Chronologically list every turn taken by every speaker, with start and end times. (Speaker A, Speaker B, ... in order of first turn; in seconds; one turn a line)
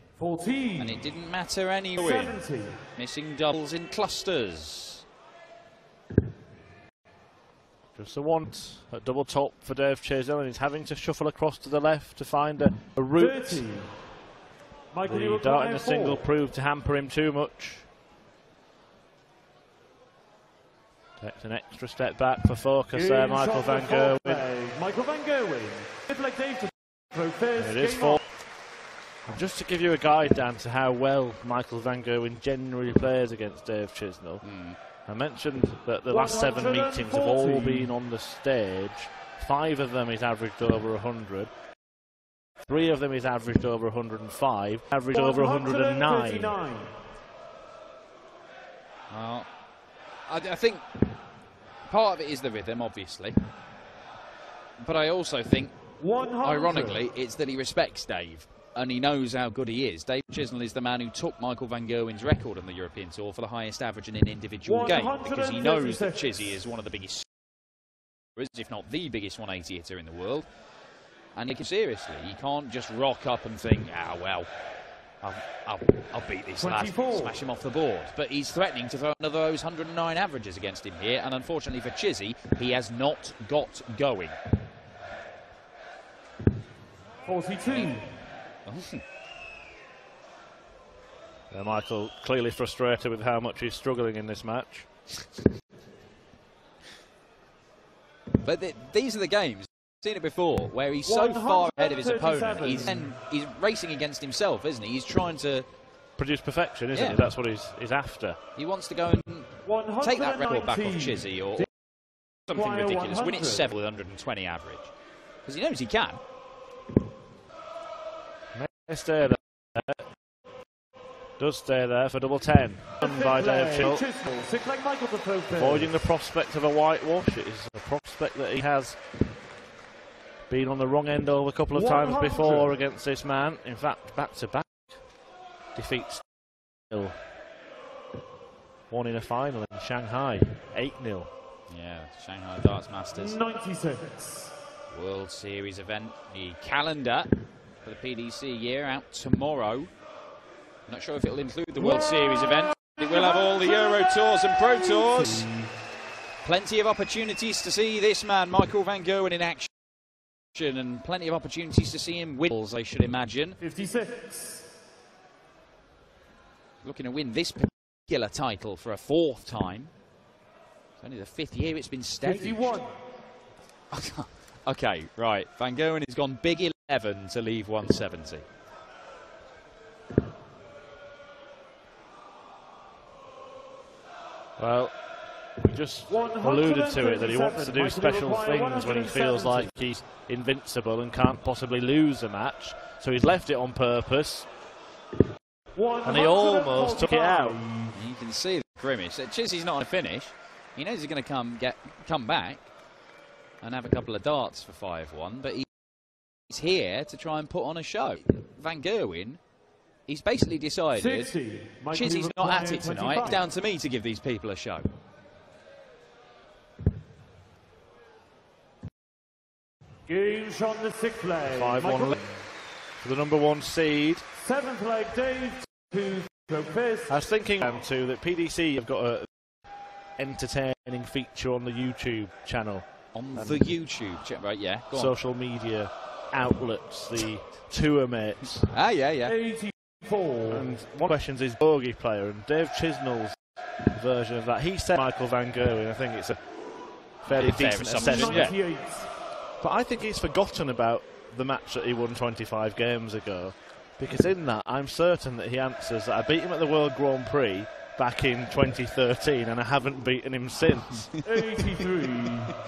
Speaker A: 0.2-0.9
Speaker B: 0.8-2.4
Speaker A: 2.0-2.8
Speaker B: 2.9-5.0
Speaker C: 7.9-13.6
Speaker A: 13.2-13.9
Speaker A: 14.9-16.2
Speaker C: 15.0-17.9
Speaker C: 21.2-24.5
Speaker A: 22.9-28.2
Speaker C: 27.6-28.2
Speaker C: 29.2-34.4
Speaker B: 34.4-34.8
Speaker C: 35.0-41.5
Speaker A: 36.1-37.9
Speaker C: 42.6-46.6
Speaker A: 45.1-46.9
Speaker B: 49.1-49.5
Speaker B: 50.3-50.9
Speaker B: 51.9-53.4
Speaker B: 54.8-55.7
Speaker A: 56.0-57.0
Speaker B: 56.4-67.3
Speaker A: 64.7-66.3
Speaker B: 68.3-70.5
Speaker B: 71.3-74.5
Speaker B: 75.2-84.4
Speaker A: 76.6-77.3
Speaker A: 87.2-88.0
Speaker B: 87.7-88.1
Speaker B: 88.7-89.0
Speaker C: 91.5-94.9
Speaker B: 98.4-105.7
Speaker A: 101.0-103.1
Speaker C: 106.2-108.4
Speaker B: 106.9-107.2
Speaker B: 108.5-111.7
Speaker A: 109.6-111.7
Speaker B: 112.5-114.9
Speaker A: 112.5-113.7
Speaker B: 115.4-116.2
Speaker C: 118.5-120.0
Speaker C: 121.4-124.0
Speaker A: 123.0-126.0
Speaker C: 125.5-129.0
Speaker C: 130.5-135.0
Speaker A: 131.7-132.7
Speaker C: 135.7-136.3
Speaker C: 136.9-137.2
Speaker C: 138.9-141.3
Speaker B: 141.7-143.4
Speaker A: 143.2-144.5
Speaker B: 144.9-149.9
Speaker B: 150.9-155.5
Speaker A: 154.9-155.7
Speaker B: 156.4-159.7
Speaker B: 160.5-163.6
Speaker A: 163.6-164.7
Speaker B: 166.8-169.9
Speaker B: 171.0-172.6
Speaker A: 172.2-172.9
Speaker B: 173.9-178.4
Speaker C: 184.6-184.9
Speaker C: 185.6-194.5
Speaker A: 186.1-189.7
Speaker A: 195.7-197.9
Speaker C: 196.0-197.6
Speaker B: 197.9-202.7
Speaker B: 203.6-205.7
Speaker B: 206.5-209.4
Speaker B: 210.1-211.3
Speaker A: 210.9-213.4
Speaker B: 211.9-214.9
Speaker A: 220.1-222.2
Speaker C: 221.5-222.3
Speaker C: 223.0-224.2
Speaker A: 224.3-227.1
Speaker C: 227.1-229.3
Speaker C: 230.2-233.7
Speaker B: 233.1-235.1
Speaker C: 234.9-238.7
Speaker B: 238.7-239.4
Speaker A: 239.3-240.6
Speaker C: 240.5-243.3
Speaker C: 243.9-246.4
Speaker C: 247.2-248.5
Speaker B: 247.3-248.6
Speaker A: 248.0-249.1
Speaker C: 249.6-261.1
Speaker A: 261.2-262.5